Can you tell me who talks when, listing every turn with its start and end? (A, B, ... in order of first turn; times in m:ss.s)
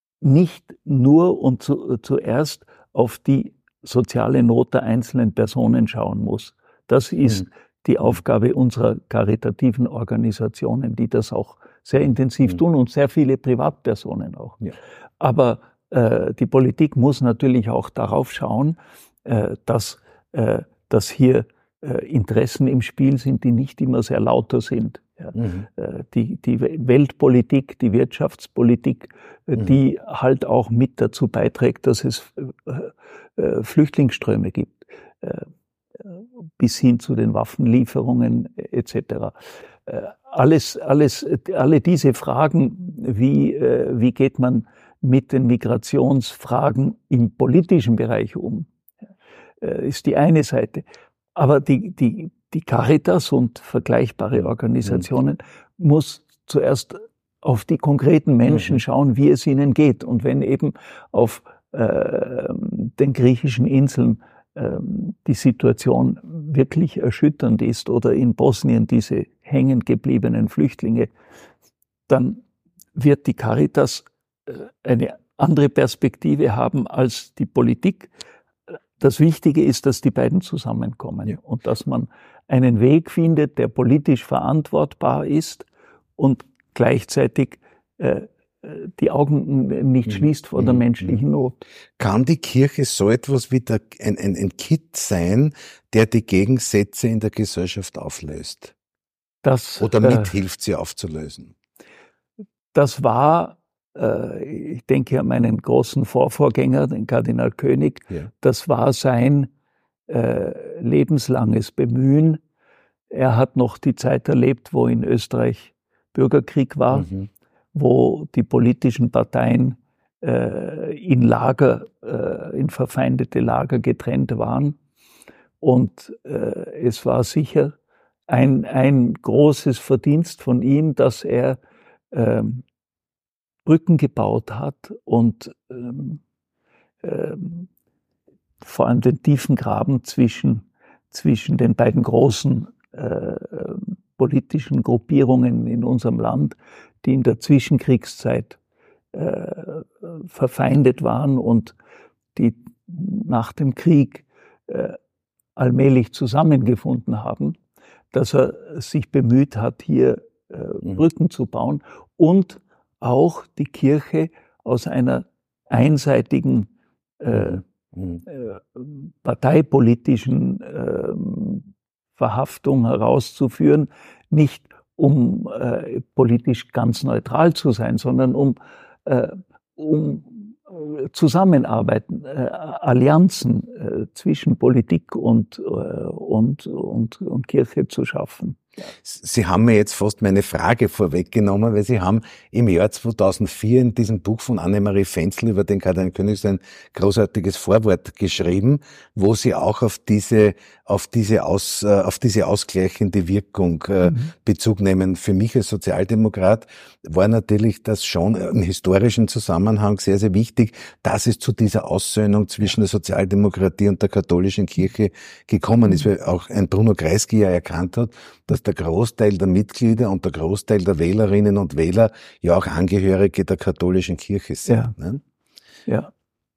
0:00.2-0:14.6 A
0:15.2-0:35.5 A
0:25.4-0:25.7 B
0:36.1-0:39.3 A
0:39.9-0:48.7 A
0:49.6-1:11.1 A
1:12.1-1:12.4 A
1:13.0-1:18.1 A
1:19.0-1:31.6 A
1:32.0-1:38.7 B
1:39.4-1:40.3 A
1:39.8-1:41.6 B
1:42.7-1:49.5 A
1:50.1-1:52.4 A
1:53.1-1:57.1 A
1:56.9-1:57.3 B
1:57.7-2:04.8 A
2:05.6-2:07.8 A
2:08.3-2:11.6 A
2:12.1-2:12.6 A
2:13.7-2:16.2 A
2:17.0-2:17.7 A
2:18.6-2:28.6 A
2:29.1-2:31.8 A
2:32.4-2:35.0 A
2:35.6-2:37.6 A
2:38.1-2:46.7 A
2:47.2-2:47.6 A
2:47.3-2:48.2 B
2:48.2-3:08.7 A
3:09.0-3:45.2 B